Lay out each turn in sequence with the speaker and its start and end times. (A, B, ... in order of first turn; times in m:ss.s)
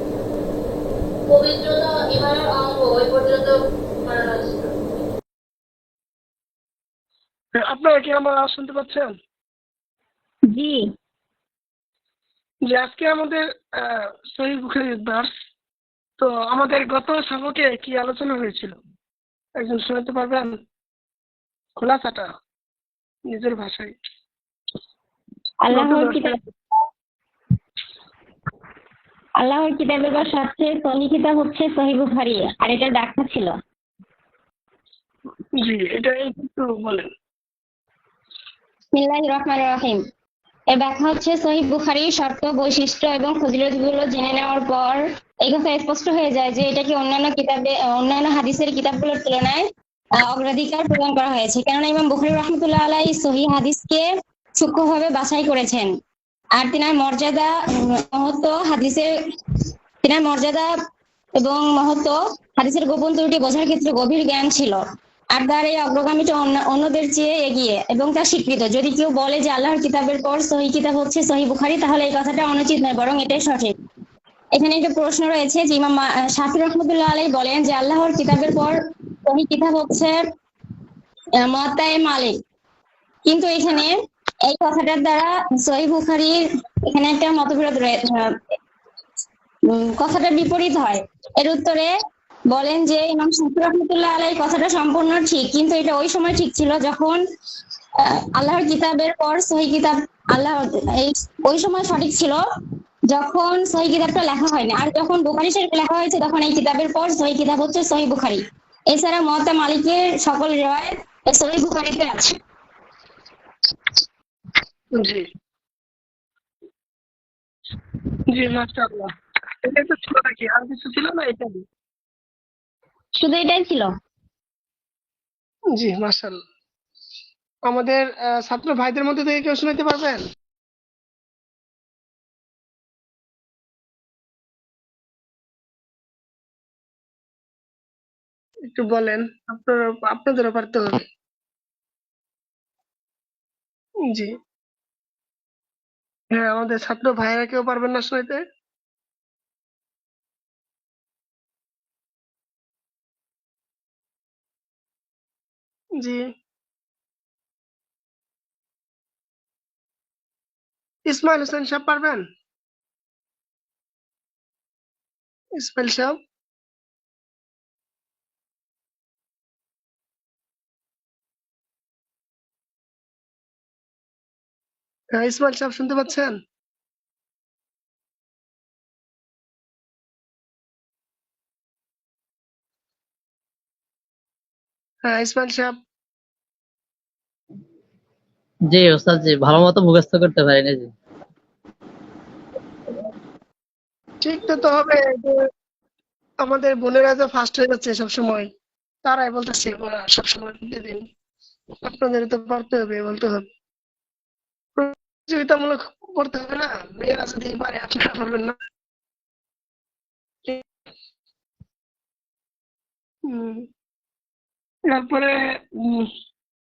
0:01.3-0:03.5 A
0:04.1-0:04.7 A
0:07.6-0:09.1 B
0:10.5-0:10.8 C
0:12.7-0:15.3 B
0:16.2-0:18.8 B
0:19.6-0:20.6 B
0:21.8-0:22.3 B
0:23.3-0:23.9 B
0:25.6-0:26.4 C
0:25.7-0:26.4 B
0:29.4-0:33.6 C
0:35.6-0:37.1 B
0:38.9-0:40.0 C
0:40.7-0:49.7 C
0:50.2-0:55.9 C
0:56.6-1:00.7 C
1:01.4-1:13.8 C
1:14.6-1:20.2 C
1:21.4-1:22.4 C
1:23.2-1:24.0 C
1:24.5-1:28.4 C
1:29.7-1:31.9 C
1:32.5-1:37.2 C
1:38.0-1:42.4 C
1:43.1-1:52.4 C
1:54.9-1:55.2 B
1:58.3-1:59.1 B
1:59.6-2:01.6 B
2:03.2-2:03.9 C
2:05.7-2:06.4 B
2:07.7-2:10.2 B
2:18.7-2:21.0 B
2:26.3-2:28.4 B
2:36.0-2:36.3 B
2:41.1-2:42.2 B
2:45.6-2:46.2 B
2:55.1-2:56.4 B
3:05.0-3:05.8 B
3:08.7-3:10.9 D
3:14.2-3:15.4 B
3:16.4-3:18.5 B
3:19.0-3:21.0 B
3:21.8-3:23.5 B
3:24.8-3:28.6 B
3:33.3-3:33.6 B
3:34.9-3:36.1 B